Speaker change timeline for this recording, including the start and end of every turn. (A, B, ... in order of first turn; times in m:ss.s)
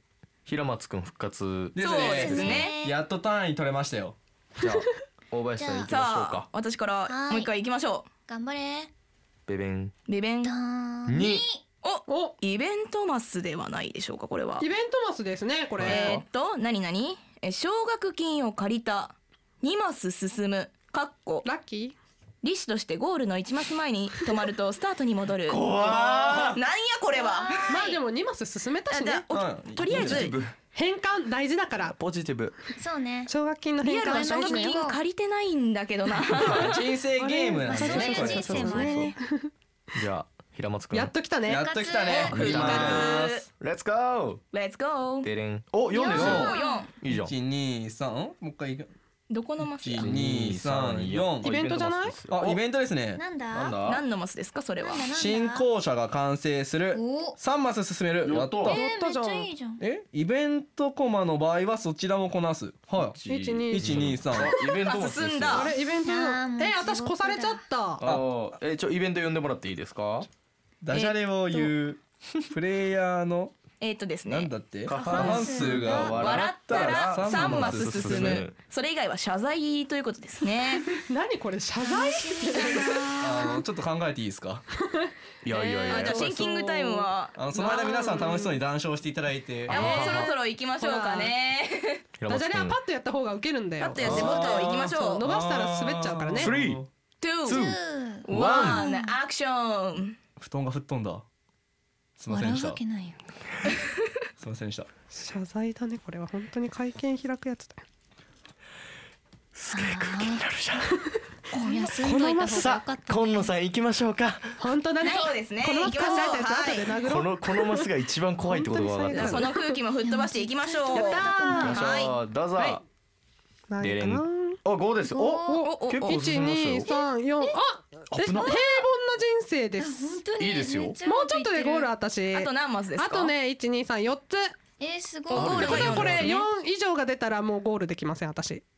0:00.5-0:02.7 A
0:01.7-0:04.2 B
0:01.8-0:02.7 C
0:02.0-0:03.0 D
0:04.6-0:06.5 A
0:05.6-0:05.9 D
0:05.9-0:08.1 C
0:07.1-0:07.5 D
0:08.3-0:08.9 D
0:09.5-0:09.9 A
0:10.1-0:10.5 C
0:10.4-0:11.6 D
0:11.1-0:11.4 A
0:11.8-0:14.7 C
0:12.1-0:12.3 E
0:14.6-0:16.2 E
0:15.8-0:16.2 A
0:15.8-0:21.5 C
0:21.4-0:22.0 E
0:22.4-0:28.0 C
0:25.5-0:26.6 A
0:26.2-0:26.4 B
0:27.1-0:28.0 D
0:27.7-0:29.3 E
0:28.9-0:30.4 C
0:29.3-0:30.3 B
0:29.9-0:30.5 A
0:30.7-0:32.0 E
0:31.8-0:32.6 A
0:32.8-0:33.3 D
0:33.3-0:34.8 E
0:33.8-0:36.9 C
0:33.8-0:35.0 D
0:36.5-0:38.8 B
0:37.2-0:39.5 E
0:37.6-0:39.2 D
0:38.6-0:39.1 A
0:39.9-0:41.1 A
0:40.9-0:41.7 E
0:41.4-0:43.3 B
0:41.5-0:42.4 D
0:42.1-0:43.4 C
0:42.3-0:44.4 A
0:44.5-0:45.3 C
0:45.2-0:47.3 A
0:45.9-0:46.9 D
0:46.0-0:46.9 C
0:46.2-0:48.9 B
0:49.3-0:50.1 C
0:49.8-0:51.6 B
0:50.0-0:52.6 A
0:51.4-0:52.2 E
0:52.3-0:53.2 B
0:53.2-0:53.8 D
0:53.5-0:54.0 A
0:53.8-0:55.1 C
0:54.8-0:55.7 D
0:55.1-0:58.7 B
0:56.9-0:57.4 D
0:58.2-0:58.8 A
0:58.6-0:59.5 E
0:58.6-0:59.8 D
0:59.8-1:03.2 B
1:03.0-1:05.7 A
1:03.3-1:04.0 E
1:03.7-1:04.6 B
1:04.6-1:05.7 C
1:05.5-1:08.1 E
1:05.6-1:07.6 D
1:08.0-1:10.3 A
1:10.8-1:13.5 B
1:10.9-1:11.6 C
1:13.8-1:14.5 C
1:14.3-1:18.5 B
1:14.9-1:18.6 A
1:14.9-1:16.2 D
1:16.1-1:21.0 C
1:21.1-1:23.1 E
1:21.8-1:23.7 D
1:23.2-1:24.6 B
1:25.4-1:26.5 A
1:25.6-1:28.0 C
1:25.9-1:28.6 E
1:27.3-1:29.9 B
1:29.7-1:30.3 A
1:29.7-1:32.0 C
1:29.9-1:31.3 E
1:32.2-1:32.8 A
1:32.3-1:36.6 E
1:33.8-1:35.2 C
1:34.0-1:36.9 B
1:34.0-1:34.3 A
1:36.4-1:36.8 A
1:37.2-1:40.2 C
1:37.4-1:38.8 A
1:37.4-1:39.2 D
1:40.4-1:41.2 B
1:42.2-1:42.8 B
1:42.3-1:43.2 D
1:44.4-1:44.9 B
1:45.1-1:47.8 E
1:49.5-1:51.0 A
1:49.7-1:50.4 D
1:51.5-1:53.5 D
1:51.5-1:52.8 E
1:52.4-1:54.6 A
1:54.6-1:57.9 E
1:55.0-1:57.0 C
1:57.0-1:59.5 A
1:58.5-1:59.8 E
1:59.1-2:02.1 C
2:00.0-2:01.9 D
2:00.9-2:01.9 E
2:01.6-2:02.8 A
2:02.6-2:02.8 E
2:03.7-2:04.6 E
2:03.8-2:06.9 A
2:05.1-2:05.7 D
2:05.4-2:10.2 E
2:05.6-2:06.2 C
2:06.9-2:07.6 D
2:08.1-2:08.7 A
2:09.8-2:11.9 D
2:10.4-2:11.0 A
2:11.1-2:14.6 E
2:12.3-2:13.3 C
2:14.8-2:16.4 D
2:15.3-2:16.5 C
2:15.3-2:16.4 A
2:15.4-2:18.6 E